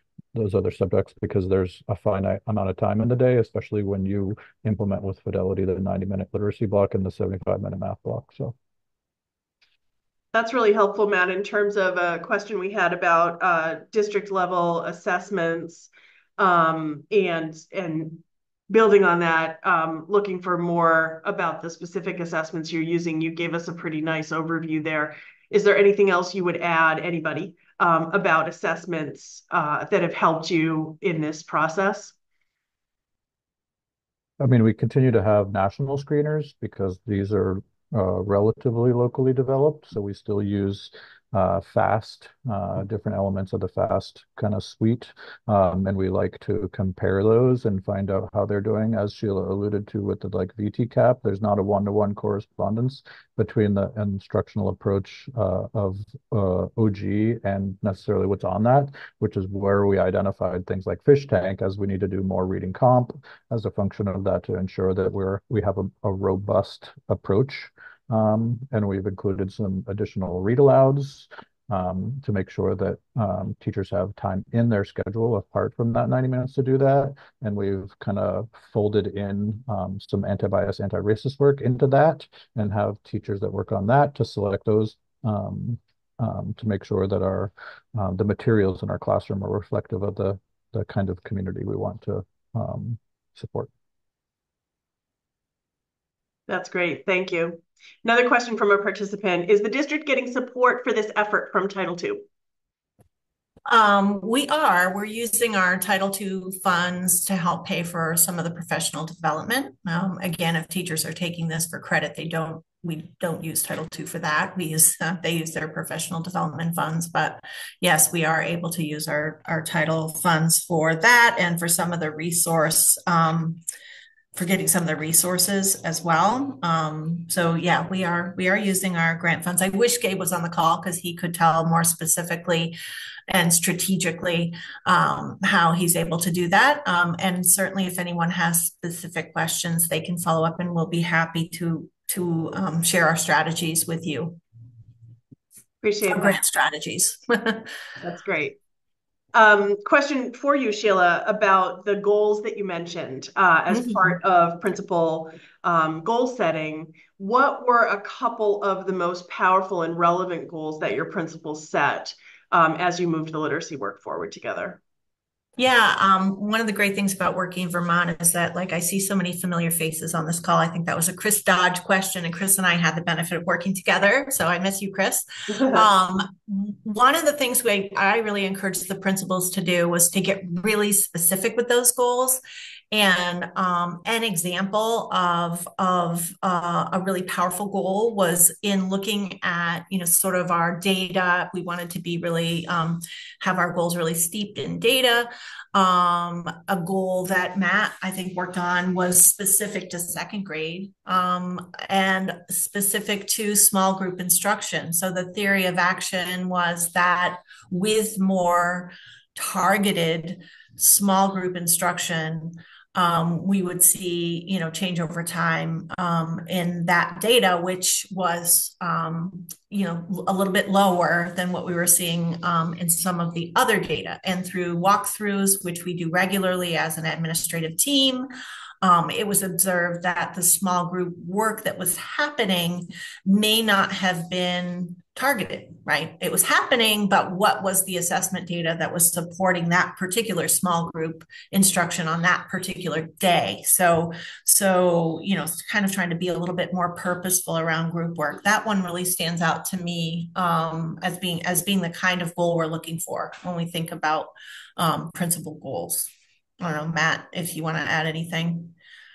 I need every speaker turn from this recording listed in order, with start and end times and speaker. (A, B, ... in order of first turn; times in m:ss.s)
0:00.3-0:08.5 A
0:10.3-0:32.1 B
0:34.4-1:33.7 A
1:36.5-1:42.2 B
1:43.7-2:03.6 C
2:04.4-2:12.8 C
2:13.3-2:24.4 C
2:25.8-2:26.4 B
2:26.1-2:27.7 C
2:28.0-2:28.6 B
2:29.3-2:44.8 B
2:33.7-2:34.0 C
2:45.6-3:48.3 C
2:55.5-2:55.9 B
3:48.8-4:16.1 C
4:16.6-4:18.7 C